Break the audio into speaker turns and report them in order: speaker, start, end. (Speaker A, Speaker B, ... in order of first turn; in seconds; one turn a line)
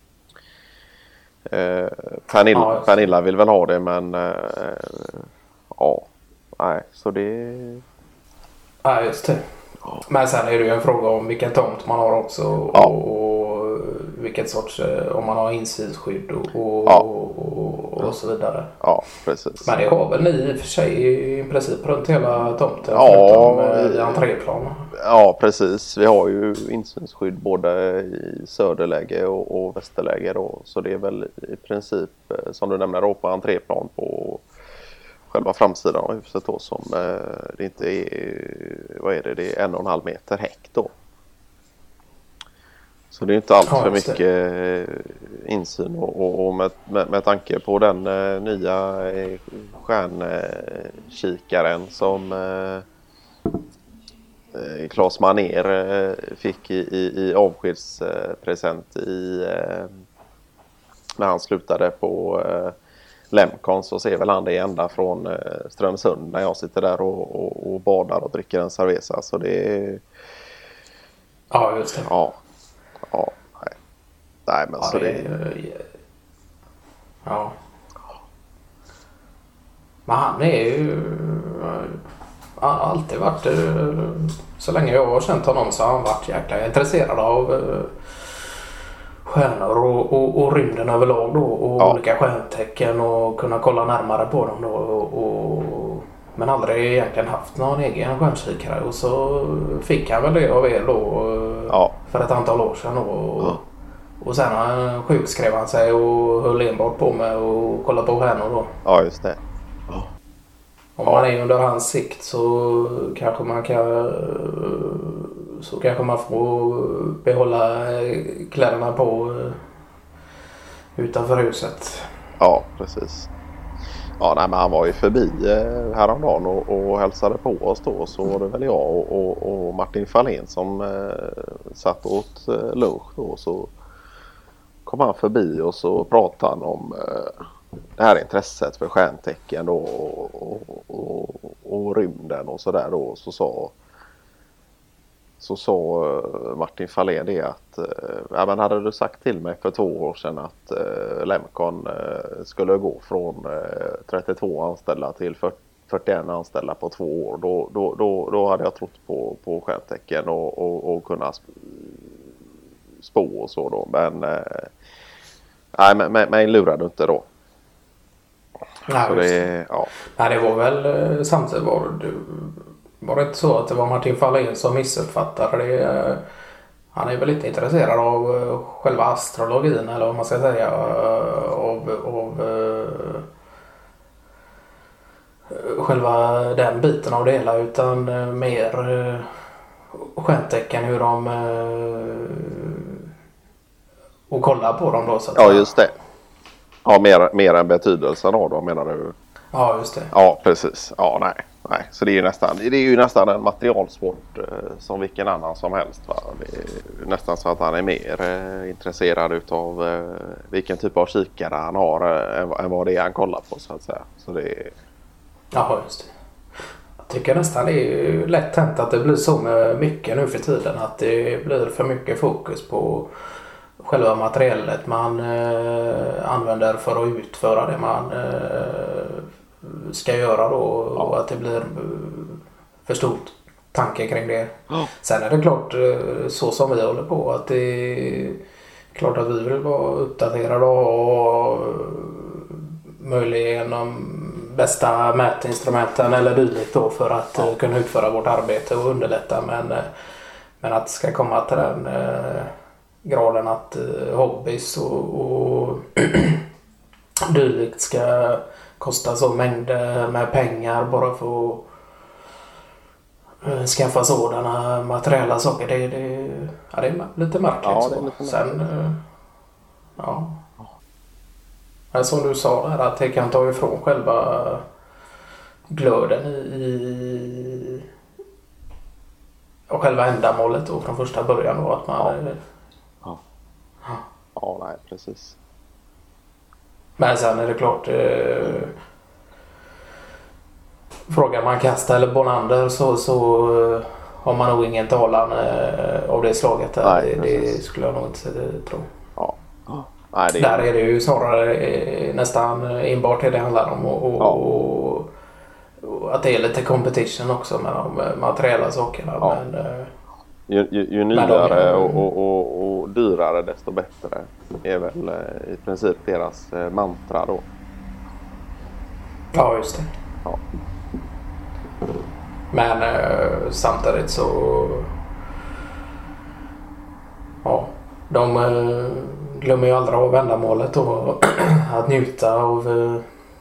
Speaker A: 1.5-7.8
Speaker B: 2.5-3.1
Speaker B: 8.8-9.4
Speaker B: 10.0-18.7
Speaker A: 18.8-19.8
Speaker B: 19.6-24.9
Speaker A: 22.9-24.3
Speaker A: 25.0-34.5
Speaker A: 35.3-40.9
Speaker A: 43.1-52.8
Speaker B: 43.6-44.2
Speaker A: 54.5-59.9
Speaker A: 61.2-62.7
Speaker A: 63.3-70.0
Speaker B: 71.5-72.1
Speaker A: 72.0-72.4
Speaker A: 73.1-73.7
Speaker A: 74.5-75.3
Speaker B: 74.8-75.8
Speaker B: 77.2-77.5
Speaker B: 80.0-82.0
Speaker B: 82.6-88.0
Speaker B: 89.2-103.6
Speaker A: 101.7-101.9
Speaker B: 104.2-108.7
Speaker A: 108.8-110.1
Speaker B: 111.0-119.6
Speaker B: 121.0-122.1
Speaker A: 122.4-123.3
Speaker A: 124.2-133.7
Speaker A: 134.8-137.4
Speaker A: 138.0-143.7
Speaker A: 145.4-162.2
Speaker A: 163.0-164.7
Speaker A: 165.7-167.3
Speaker B: 168.9-169.5
Speaker A: 168.9-169.9
Speaker B: 170.1-176.2
Speaker B: 176.9-183.2
Speaker B: 185.5-189.3
Speaker B: 189.9-193.0
Speaker B: 194.3-195.8
Speaker A: 195.3-195.9
Speaker A: 196.8-199.1
Speaker B: 199.5-200.1
Speaker A: 200.1-214.7
Speaker B: 215.5-216.1
Speaker B: 217.0-223.1
Speaker B: 223.8-238.4
Speaker B: 238.9-249.9
Speaker B: 250.6-252.5
Speaker B: 253.0-256.4
Speaker B: 257.3-261.7
Speaker B: 263.4-269.0
Speaker A: 267.6-268.6
Speaker B: 270.0-270.4
Speaker B: 271.9-274.6
Speaker B: 275.7-277.8
Speaker B: 279.7-282.4
Speaker A: 284.4-285.4
Speaker B: 287.0-288.7
Speaker B: 291.1-298.9
Speaker A: 296.8-297.6
Speaker A: 299.2-300.7
Speaker B: 300.3-305.1
Speaker B: 305.8-309.9
Speaker A: 310.5-317.4
Speaker B: 311.1-312.1
Speaker B: 319.3-319.9
Speaker B: 322.5-324.9
Speaker B: 327.4-333.1